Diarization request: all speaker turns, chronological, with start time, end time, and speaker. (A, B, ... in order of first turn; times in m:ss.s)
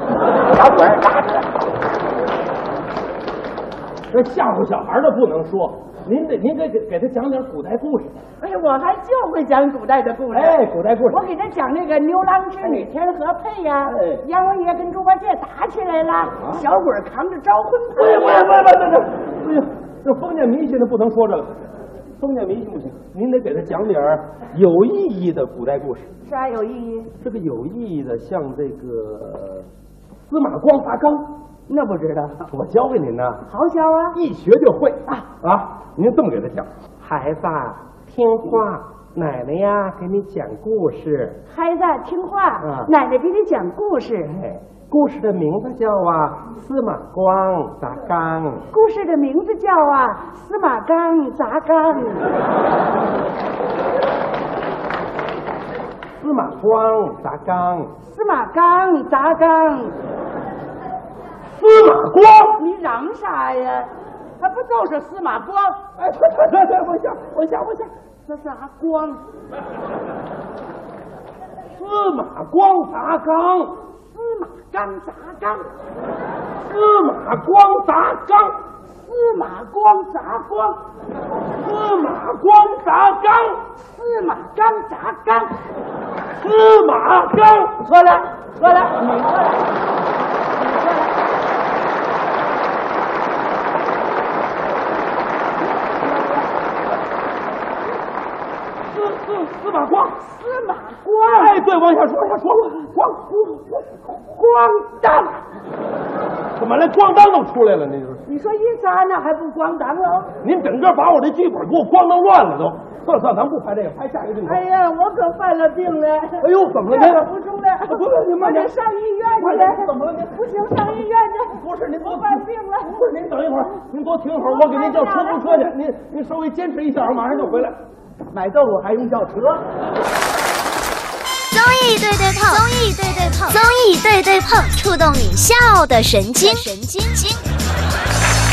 0:00.4-0:01.5 A
0:04.1-0:08.2 B
0:08.4-0:10.6 A
0:10.3-0:11.2 B
0:11.1-0:18.6 A
0:13.8-0:14.2 B
0:16.4-0:16.6 B
0:18.0-0:21.6 B
0:22.2-0:26.1 B
0:26.3-0:27.1 A
0:27.2-0:29.7 B
0:30.3-0:31.4 B
0:31.7-0:32.5 A
0:32.5-0:33.4 B
0:33.5-0:34.2 A
0:34.1-0:41.4 B
0:41.5-0:44.4 A
0:42.6-0:42.9 B
0:44.4-0:48.6 B
0:48.7-0:52.3 A
0:56.2-0:57.9 B
0:58.1-1:00.0 A
1:01.6-1:02.6 B
1:02.6-1:05.8 A
1:06.0-1:07.9 B
1:08.2-1:09.2 A
1:11.8-1:13.8 B
1:14.0-1:15.7 A
1:16.6-1:18.6 B
1:19.1-1:20.8 A
1:21.6-1:23.6 B
1:24.0-1:25.6 A
1:26.4-1:27.8 B
1:27.8-1:29.8 A
1:30.5-1:31.2 A
1:35.7-1:36.5 A
1:38.9-1:40.2 B
1:40.2-1:41.6 A
1:41.4-1:43.8 B
1:44.1-1:45.4 A
1:46.6-1:48.2 B
1:48.3-1:50.3 A
1:50.4-1:54.6 B
1:54.4-2:03.0 A
1:56.4-1:57.2 B
1:57.9-1:58.7 B
1:59.4-2:00.9 B
2:01.5-2:07.8 B
2:04.4-2:05.7 A
2:08.3-2:09.6 A
2:11.5-2:17.4 C